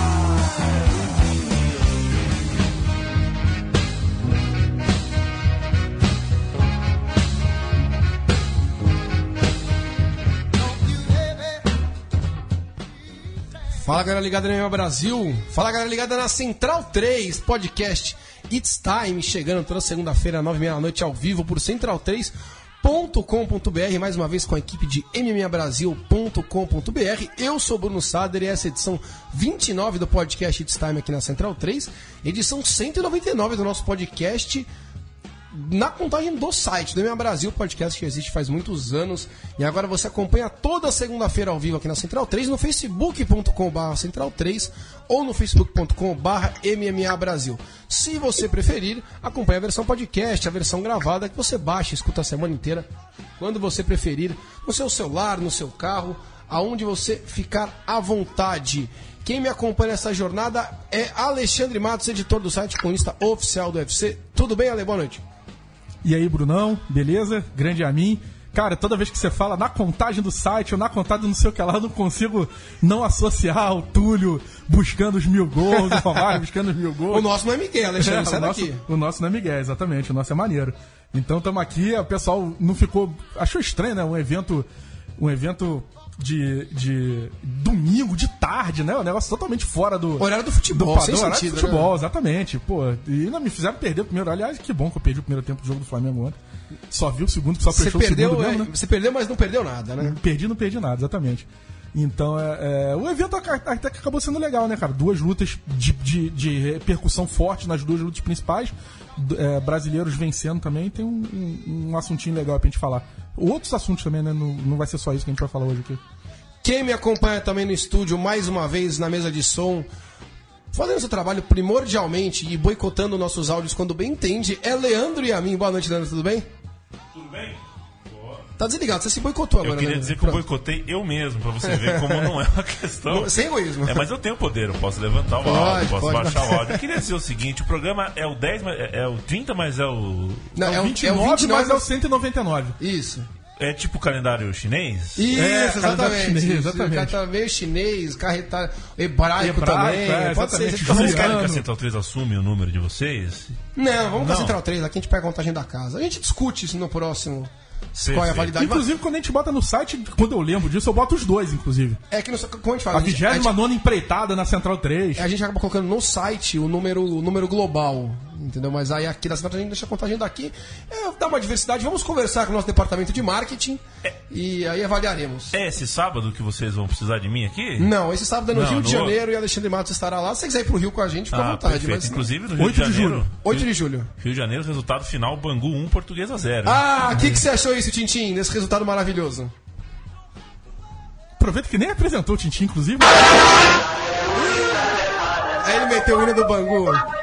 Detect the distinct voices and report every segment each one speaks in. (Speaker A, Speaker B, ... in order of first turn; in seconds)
Speaker A: 13.8-34.7, 35.5-52.9, 53.4-65.2, 75.8-76.2, 77.1-78.8, 90.2-91.9, 97.7-100.2, 116.6-119.9, 120.7-126.5, 128.6-130.4, 131.6-132.3, 133.1-134.1, 135.4-136.8, 140.5-141.9, 142.8-143.3, 145.1-151.3, 153.7-158.9, 162.1-163.5, 165.2-175.5, 177.8-182.3, 183.4-184.1, 186.6-189.5, 195.6-197.0
Speaker B: 66.0-77.3, 78.0-84.7, 85.2-96.3, 96.9-98.7, 100.0-116.0, 140.6-142.8, 145.3-147.1, 149.4-151.7, 158.5-162.0, 162.9-165.3, 182.5-183.3, 191.4-193.4
Speaker C: 127.1-128.4, 129.6-133.3, 133.8-140.5, 143.6-145.2, 150.8-153.6, 154.2-154.6, 158.0-158.5, 175.5-177.9, 178.5-179.2, 181.3-183.7, 184.2-187.4